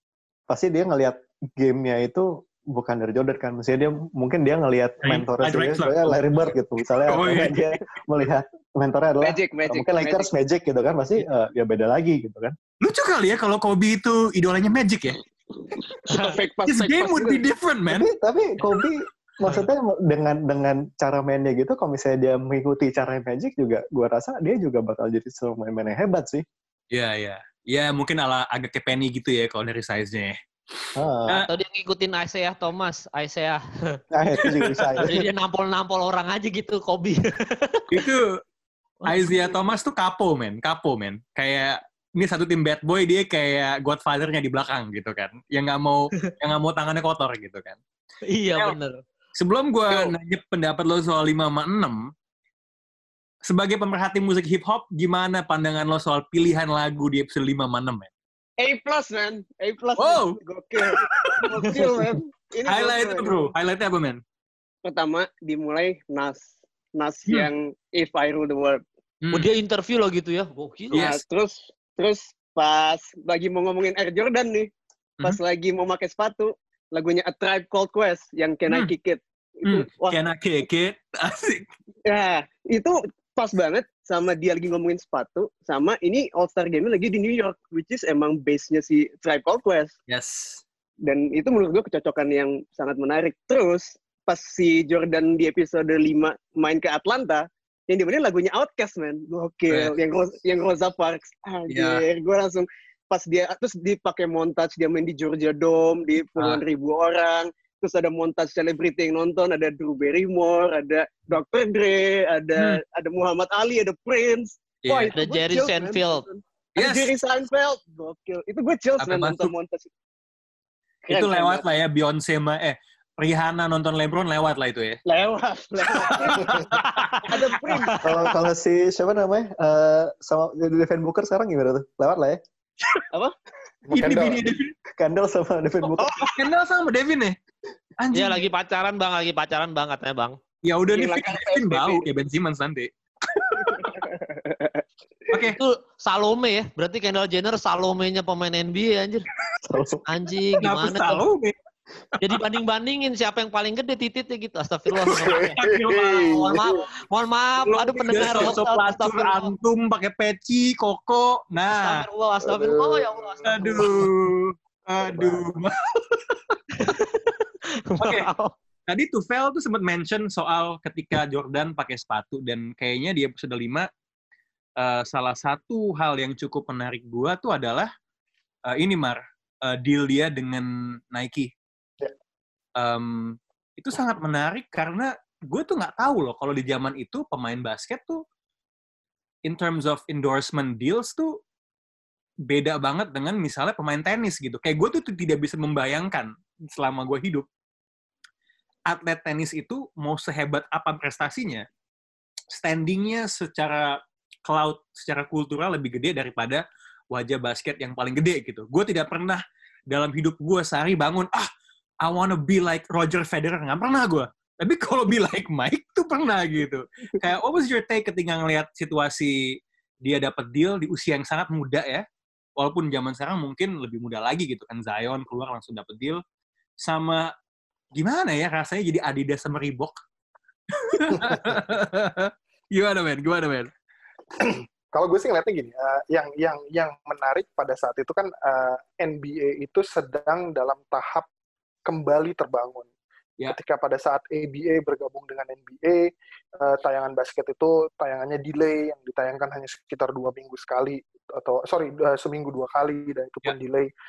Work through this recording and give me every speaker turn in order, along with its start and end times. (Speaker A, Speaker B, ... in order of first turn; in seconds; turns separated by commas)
Speaker A: 0.5-12.5, Speaker B: 5.0-6.2, Speaker B: 7.0-7.6, Speaker C: 9.2-10.3, Speaker B: 12.8-15.2, Speaker C: 16.0-17.4, Speaker B: 16.6-18.1, Speaker A: 17.9-26.4, Speaker B: 26.9-31.5, Speaker A: 30.9-31.4, Speaker D: 31.3-34.0, Speaker A: 34.1-35.2, Speaker B: 34.4-35.1, Speaker D: 35.0-38.0, Speaker B: 37.9-38.4, Speaker D: 39.0-39.4, Speaker B: 39.0-47.8, Speaker D: 48.3-49.0, Speaker B: 49.4-52.1, Speaker B: 53.5-58.1, Speaker C: 58.6-63.5, Speaker B: 60.0-62.1, Speaker B: 62.7-64.2, Speaker C: 64.8-68.8, Speaker B: 69.2-69.5, Speaker D: 69.3-71.1, Speaker C: 70.9-74.7, Speaker B: 70.9-71.2, Speaker C: 75.2-80.2, Speaker B: 79.6-81.7, Speaker C: 82.0-89.9, Speaker B: 90.1-90.6, Speaker C: 91.0-119.9, Speaker B: 101.7-102.0, Speaker B: 114.8-115.1, Speaker D: 115.1-116.2, Speaker B: 116.8-117.1, Speaker B: 119.0-119.5, Speaker C: 121.0-121.7, Speaker B: 121.1-125.0, Speaker C: 125.0-126.7, Speaker B: 125.9-127.8, Speaker D: 126.8-127.1, Speaker C: 127.2-128.0, Speaker D: 127.8-128.2, Speaker A: 128.0-132.4, Speaker B: 133.9-134.7, Speaker E: 133.9-134.4, Speaker A: 135.0-136.4, Speaker B: 135.9-137.3, Speaker B: 138.0-138.4, Speaker D: 138.1-140.4, Speaker B: 140.6-144.0, Speaker C: 140.9-142.1, Speaker C: 143.8-144.8, Speaker B: 145.3-145.6, Speaker D: 145.5-149.2, Speaker A: 149.7-150.0, Speaker D: 150.0-151.2, Speaker B: 150.6-151.5, Speaker D: 152.2-159.5, Speaker E: 155.2-156.8, Speaker B: 155.2-156.6, Speaker B: 157.6-162.0, Speaker D: 161.7-164.0, Speaker E: 162.4-164.0, Speaker B: 163.4-166.3, Speaker D: 166.7-167.3, Speaker D: 167.9-168.5, Speaker B: 168.0-168.3, Speaker B: 168.9-173.9, Speaker B: 174.8-177.9, Speaker B: 178.7-181.5, Speaker B: 182.8-188.2, Speaker B: 189.4-191.4, Speaker B: 192.5-197.4, Speaker B: 198.9-201.7, Speaker B: 202.5-211.5, Speaker B: 212.0-222.0, Speaker B: 222.6-226.2, Speaker B: 226.8-227.3, Speaker B: 227.9-229.9, Speaker B: 230.7-233.7, Speaker E: 234.3-241.2, Speaker E: 241.8-242.9, Speaker E: 243.5-253.9